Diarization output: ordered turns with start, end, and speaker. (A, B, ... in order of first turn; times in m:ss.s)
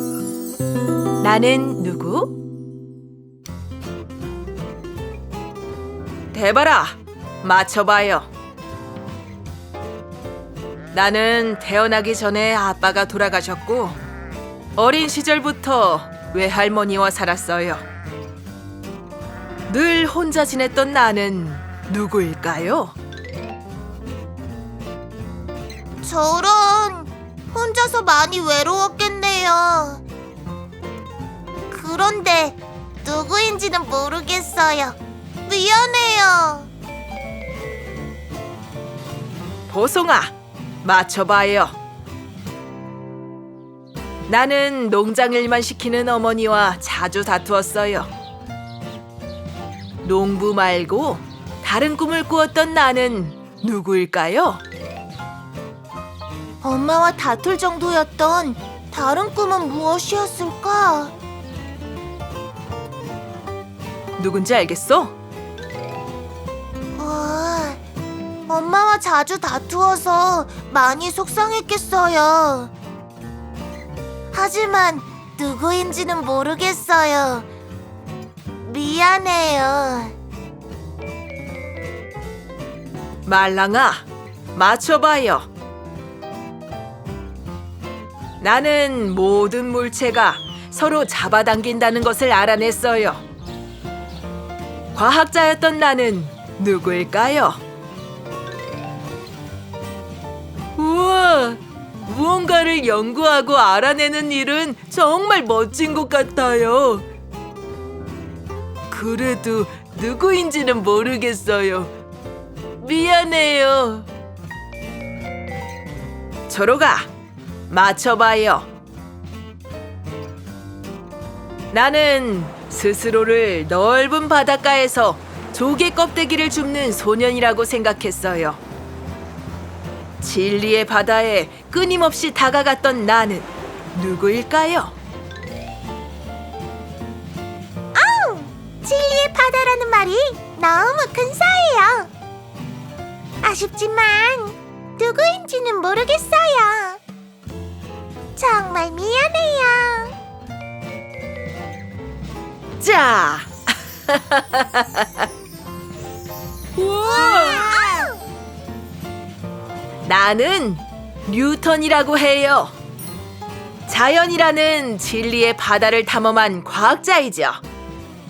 0:01.2-0:02.3 A
0:06.3-0:08.3 A
0:10.9-0:14.0 A
0:14.8-0:17.8 A
0:19.7-0:23.0 A
0:26.0-0:30.0 B
0:31.7-0:36.7 B
0:39.7-0:41.8 A
0:44.3-0:48.1 A
0:50.0-0:54.6 A
0:56.6-1:01.1 B
1:04.2-1:05.1 A
1:07.0-1:07.8 B
1:08.5-1:12.7 B
1:14.3-1:17.5 B
1:18.6-1:20.1 B
1:23.2-1:25.5 A
1:28.4-1:33.2 A
1:34.9-1:37.6 A
1:40.8-1:47.0 A
1:48.9-1:51.9 A
1:52.8-1:54.1 A
1:56.5-1:57.1 A
1:57.7-1:58.7 A
2:01.7-2:08.6 A
2:10.2-2:15.0 A
2:17.9-2:22.1 B
2:23.4-2:27.0 B
2:28.4-2:30.1 B
2:32.8-2:33.5 A
2:34.0-2:35.3 A
2:36.8-2:38.1 A
2:37.0-2:38.2 B
2:40.0-2:42.7 A
2:43.9-2:47.6 A